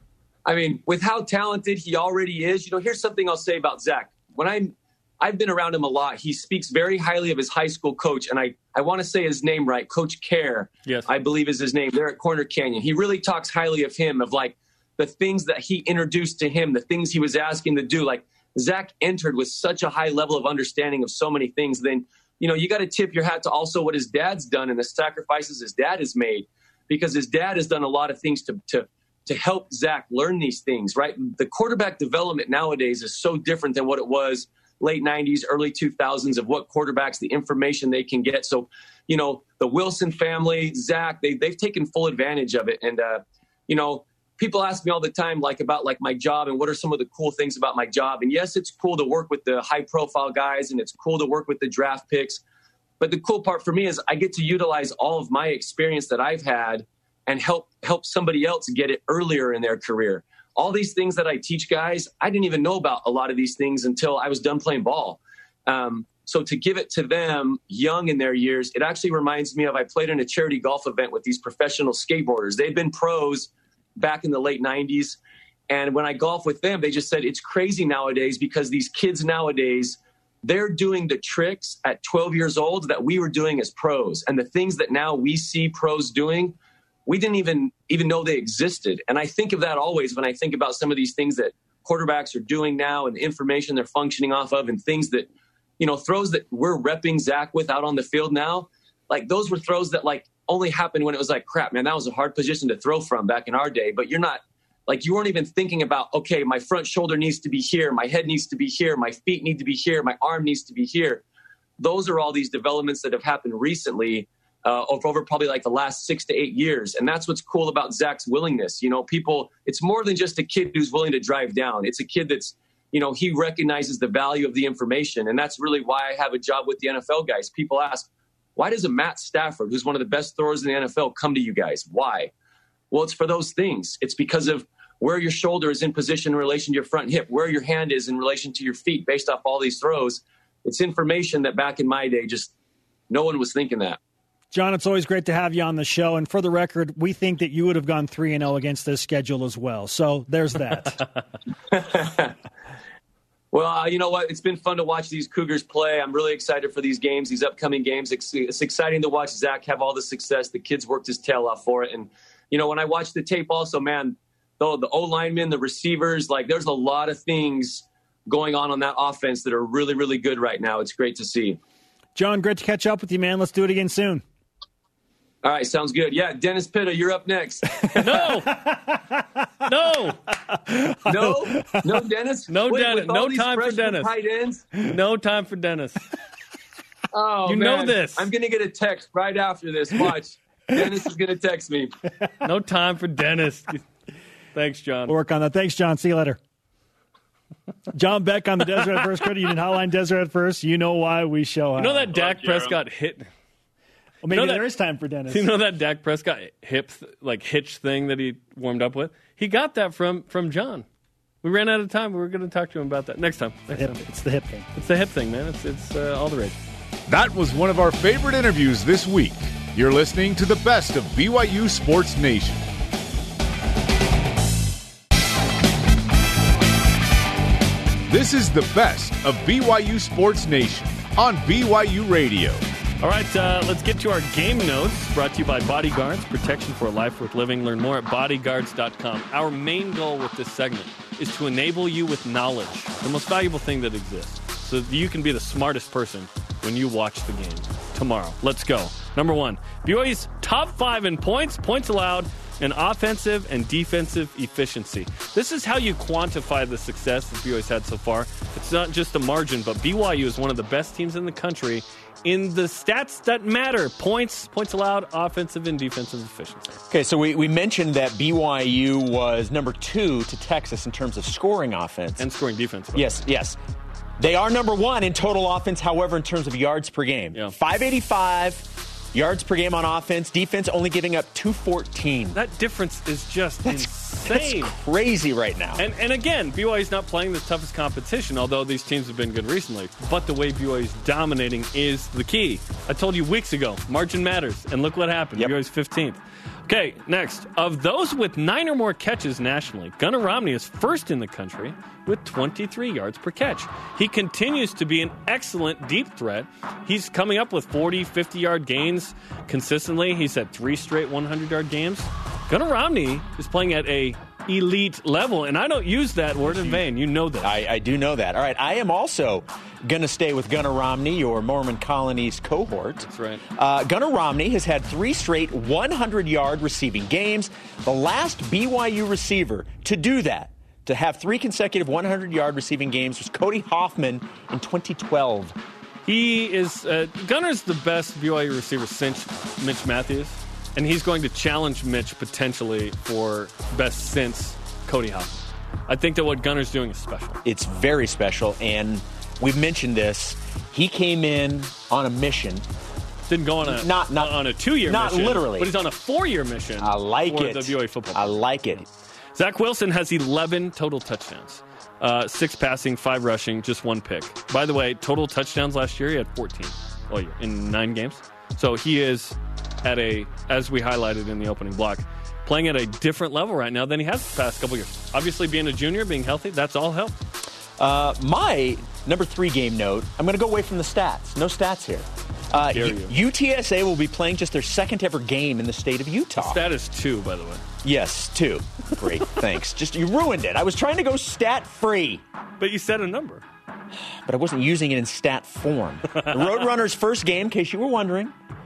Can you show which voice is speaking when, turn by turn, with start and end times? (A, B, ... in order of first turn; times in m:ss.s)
0:00.4-0:52.4 A
0:53.0-1:51.2 A
1:51.8-2:12.3 A
2:12.9-2:22.5 A
2:23.1-2:24.0 A
2:24.5-2:31.0 B
2:31.7-2:32.4 A
2:33.5-2:51.6 A
2:52.2-2:54.2 B
2:55.4-2:58.3 A
2:58.0-2:58.7 C
2:59.6-3:00.2 C
3:01.0-3:04.7 A
3:02.5-3:04.1 C
3:04.8-3:06.0 C
3:07.1-3:11.9 A
3:07.4-3:08.3 C
3:12.4-3:13.8 C
3:14.5-3:15.1 C
3:15.1-3:16.4 B
3:17.9-3:22.1 B
3:21.8-3:23.3 C
3:22.1-3:22.8 A
3:24.2-3:25.5 B
3:24.3-3:24.6 C
3:25.3-3:30.8 C
3:31.4-3:34.0 C
3:33.7-3:34.7 B
3:34.7-3:36.5 C
3:37.1-3:42.6 D
3:48.1-3:52.6 D
3:53.0-4:26.8 C
4:26.9-4:32.3 E
4:32.2-4:33.0 C
4:32.9-4:33.6 E
4:34.2-4:42.4 E
4:42.3-4:44.7 C
4:43.6-4:45.8 E
4:45.8-5:17.6 C
5:16.4-5:16.8 E
5:17.4-5:35.6 E
5:23.1-5:23.4 C
5:36.0-5:45.4 C
5:45.9-5:47.4 C
5:47.4-5:52.6 E
5:53.3-5:58.4 C
5:53.6-5:55.7 E
5:56.8-5:58.8 E
5:59.3-6:17.1 C
6:17.8-6:26.6 E
6:22.7-6:23.1 C
6:26.4-6:27.6 C
6:27.8-6:32.2 E
6:32.6-6:33.4 C
6:34.2-6:38.3 E